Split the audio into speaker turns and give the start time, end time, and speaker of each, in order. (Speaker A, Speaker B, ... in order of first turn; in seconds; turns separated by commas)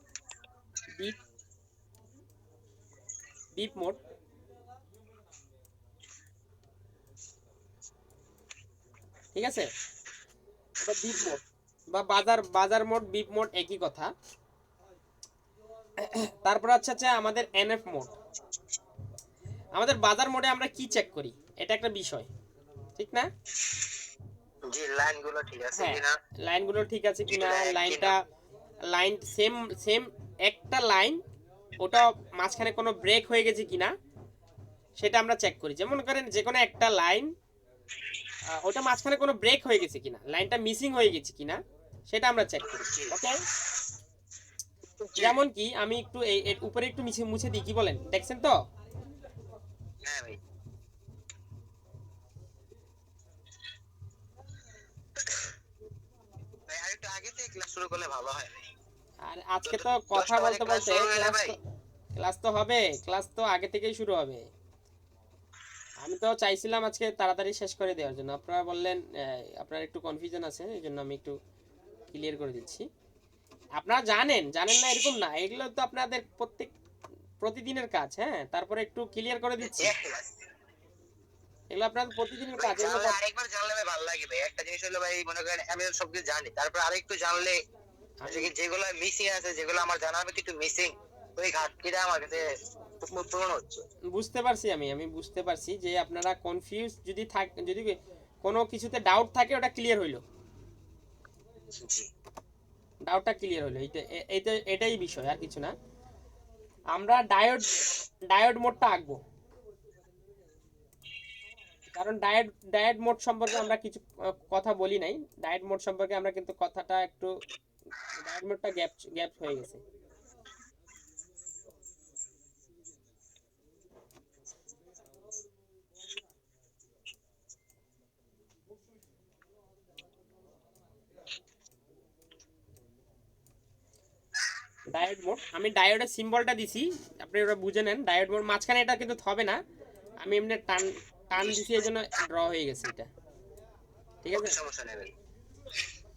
Speaker A: 3.5-4.0, Speaker A: 9.3-9.7, Speaker A: 10.8-14.1, Speaker A: 16.0-18.1, Speaker A: 19.8-22.3, Speaker A: 23.0-23.3, Speaker B: 24.7-26.2, Speaker A: 25.8-28.2, Speaker B: 27.3-28.1, Speaker A: 28.9-31.2, Speaker A: 31.8-33.9, Speaker A: 35.0-37.3, Speaker A: 38.5-43.4, Speaker B: 42.6-43.2, Speaker B: 45.0-45.4, Speaker A: 45.2-48.6, Speaker B: 50.0-50.4, Speaker B: 56.7-58.6, Speaker A: 59.2-61.6, Speaker B: 59.6-61.5, Speaker A: 62.2-64.5, Speaker A: 66.0-71.4, Speaker A: 72.1-72.9, Speaker A: 73.8-76.7, Speaker A: 77.4-80.0, Speaker B: 79.6-80.4, Speaker A: 81.7-83.2, Speaker B: 82.5-87.6, Speaker A: 88.2-88.5, Speaker B: 88.2-92.5, Speaker B: 93.0-93.8, Speaker A: 94.1-100.2, Speaker B: 101.8-102.1, Speaker A: 103.0-105.8, Speaker A: 106.9-109.2, Speaker A: 111.9-117.3, Speaker A: 118.2-119.8, Speaker A: 134.9-139.6, Speaker A: 140.2-143.1, Speaker A: 144.2-144.6, Speaker B: 144.3-145.1